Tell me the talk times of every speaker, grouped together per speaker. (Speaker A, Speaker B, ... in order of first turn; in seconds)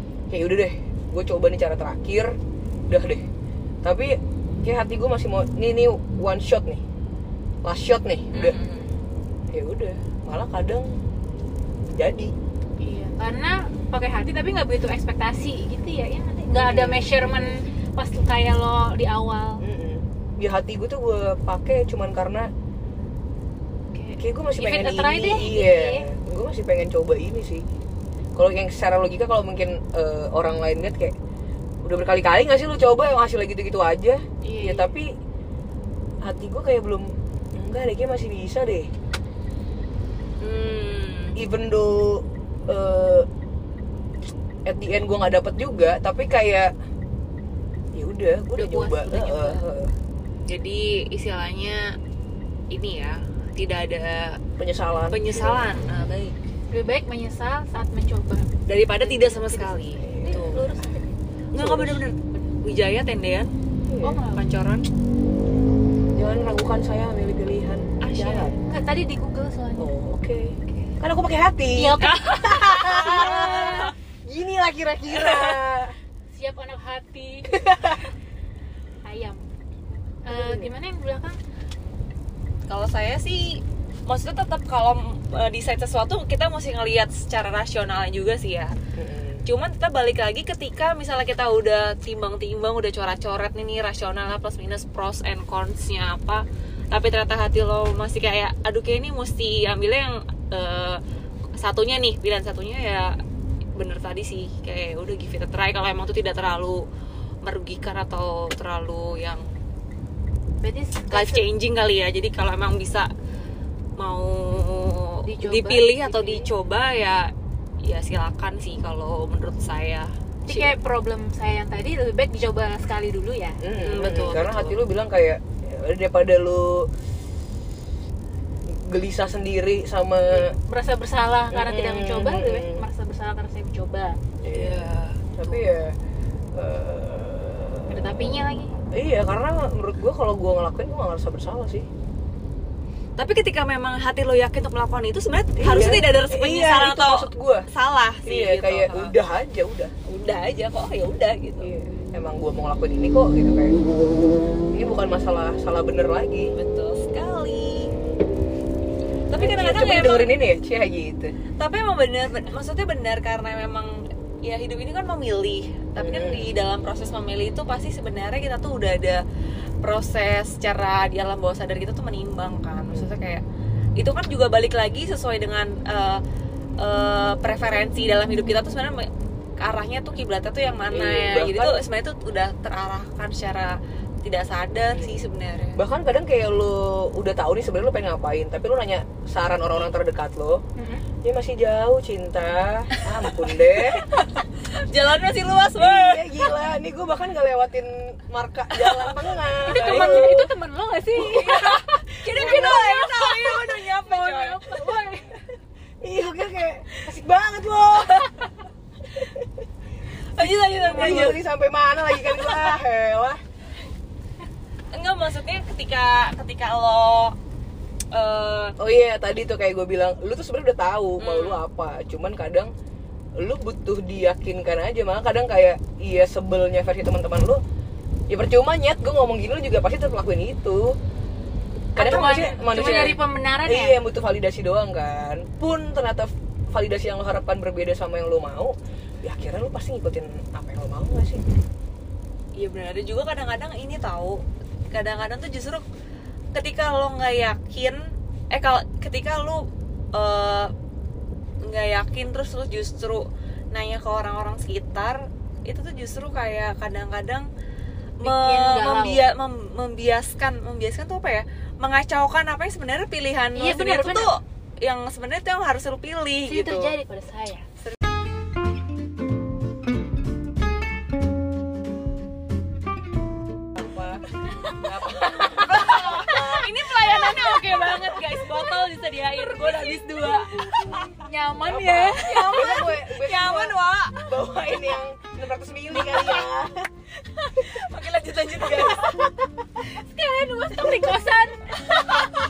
Speaker A: 0.3-2.4, 2.9-3.2, 3.8-6.8, 7.6-8.6, 9.5-11.0, 11.9-12.3, 16.5-17.6, 19.6-22.5, 24.2-27.6, 28.4-31.1, 31.8-35.1, 36.2-38.9, 41.4-43.3, 44.7-46.7, 47.9-50.0, 54.6-55.7, 60.0-61.0, 61.6-62.1, 63.9-64.2, 66.2-68.5, 69.8-76.0, 77.5-77.9, 80.3-80.7, 89.0-89.5, 123.6-126.9, 128.7-130.6, 131.5-132.9, 134.4-135.9, 136.6-138.1, 138.9-141.9, 145.6-147.6, 148.2-149.9, 151.6-153.8, 154.7-156.5, 159.4-161.4, 166.0-166.5, 180.9-181.8, 184.9-185.2, 185.8-190.6, 191.2-194.1, 195.8-200.4, 201.3-203.0, 206.0-208.5, 209.1-209.4, 210.8-213.4, 218.8-222.7, 223.4-227.6, 228.3-231.0, 232.0-241.4, 273.8-274.2, 274.8-276.4, 281.7-286.9, 288.6-289.3
Speaker B: 8.3-8.9, 40.4-41.4, 50.5-51.8, 52.7-54.4, 55.1-56.4, 58.7-60.7, 61.5-63.5, 64.3-64.8, 68.0-68.5, 70.7-71.0, 72.0-73.9, 82.7-88.8, 89.5-101.0, 101.6-103.2, 103.8-106.8, 107.4-109.5, 111.1-113.1, 114.0-117.3, 117.8-120.8, 123.8-124.8, 134.5-135.6, 143.2-149.2, 150.1-151.7, 156.5-157.9, 159.3-160.3, 161.6-169.2, 169.8-173.4, 174.0-176.2, 176.8-185.8, 194.0-196.5, 198.7-199.2, 199.7-200.4, 201.2-204.7, 210.3-211.4, 212.3-212.7, 214.9-217.3, 218.1-218.8, 221.2-221.6, 232.7-233.1, 242.6-245.8, 246.5-248.0, 248.5-250.7, 251.6-257.5, 258.2-267.0, 275.2-281.1, 282.3-284.2, 287.5-289.1
Speaker C: 12.8-19.6, 23.9-26.1, 34.4-34.9, 48.5-49.6, 56.7-61.0, 64.0-64.5, 68.5-69.9, 71.7-73.9, 76.3-78.0, 79.0-79.5, 80.2-81.4, 110.6-111.5, 115.2-116.5, 120.5-123.6, 130.3-134.2, 137.9-138.7, 190.8-191.0, 199.7-205.4, 210.9-211.4, 232.0-234.0, 258.2-259.2, 263.6-264.3, 266.5-267.6, 274.7-282.9, 289.8-291.8